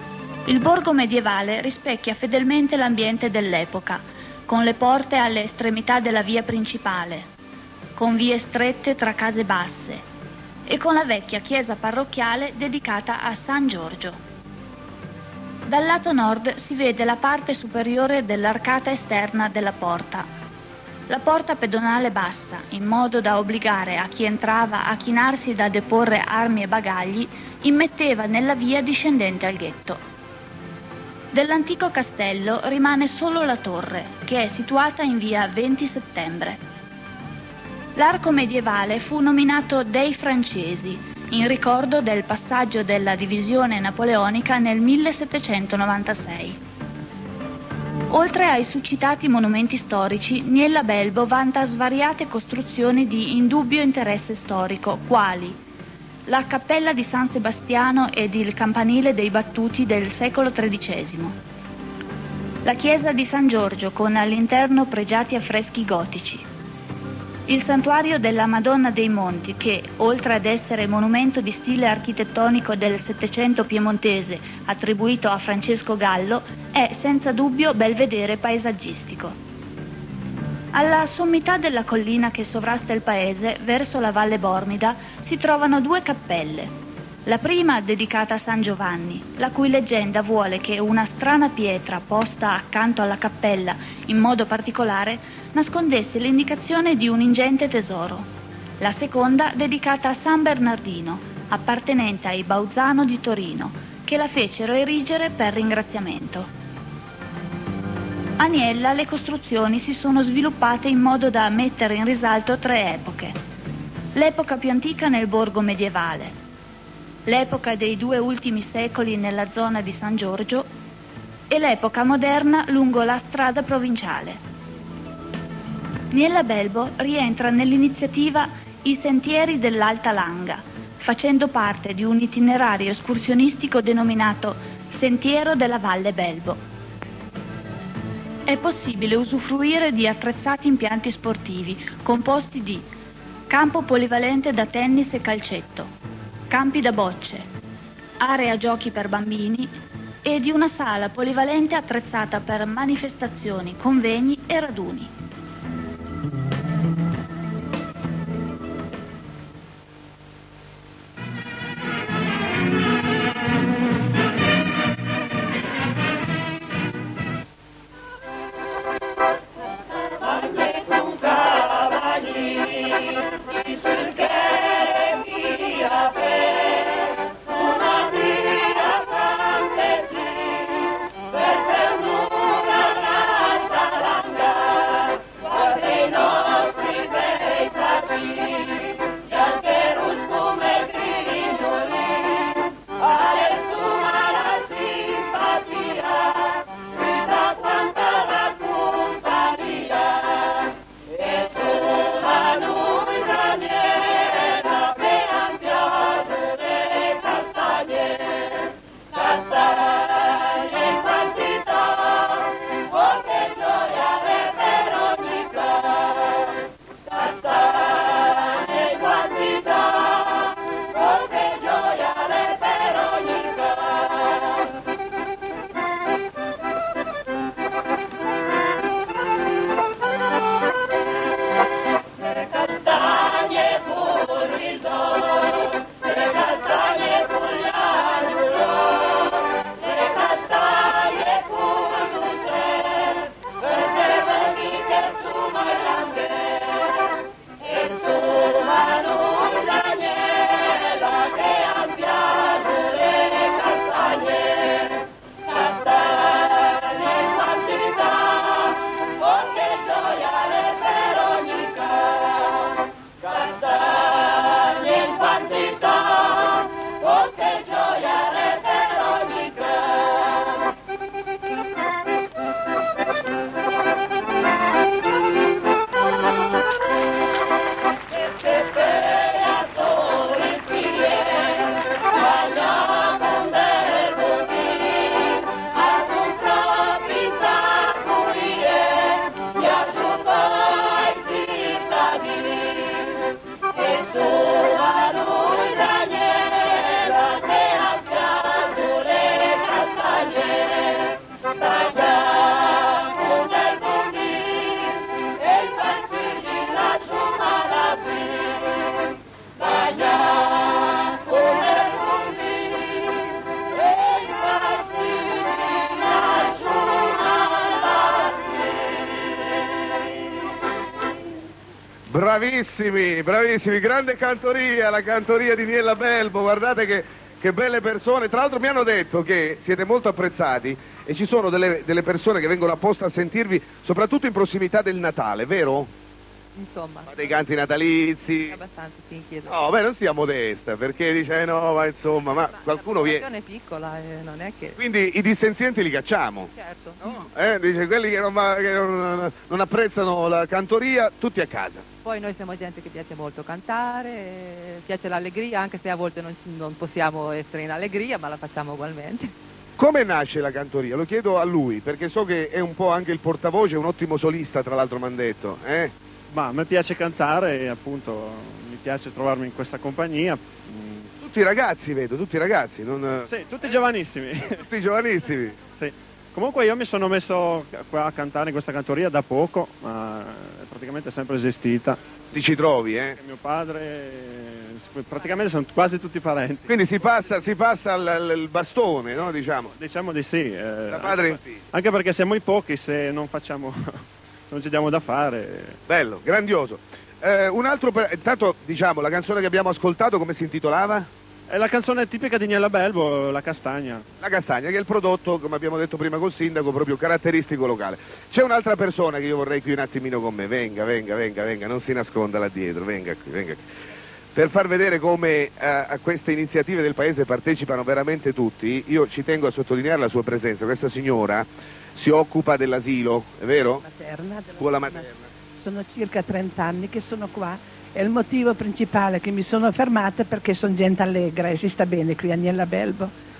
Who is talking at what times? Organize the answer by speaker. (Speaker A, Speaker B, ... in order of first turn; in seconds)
Speaker A: 0.5-7.3, 8.0-10.0, 10.7-14.2, 15.7-20.3, 21.1-30.0, 31.3-36.6, 38.0-46.6, 48.1-55.6, 56.3-61.3, 62.6-66.4, 67.5-79.3, 80.7-86.7, 87.2-98.3, 98.8-106.5, 108.4-113.4, 114.1-116.3, 117.2-120.7, 121.5-124.4, 126.1-136.6, 138.5-142.8, 143.5-145.9, 146.5-147.5, 148.2-149.7, 150.2-155.1
Speaker B: 322.1-335.9, 337.1-338.6, 339.5-343.2, 344.8-351.9, 359.8-365.9, 371.2-373.3, 374.5-375.6, 382.3-383.2, 386.7-389.7, 390.9-391.6, 395.9-401.1, 404.2-413.7, 414.3-423.8, 424.6-425.2
Speaker C: 336.5-337.4, 338.4-339.7, 342.3-344.8, 346.5-347.1, 352.0-359.3
Speaker D: 366.3-371.1, 373.3-374.6, 375.7-382.0, 383.2-386.7, 389.8-395.8, 401.5-404.0
Speaker E: 423.8-425.0, 425.6-433.1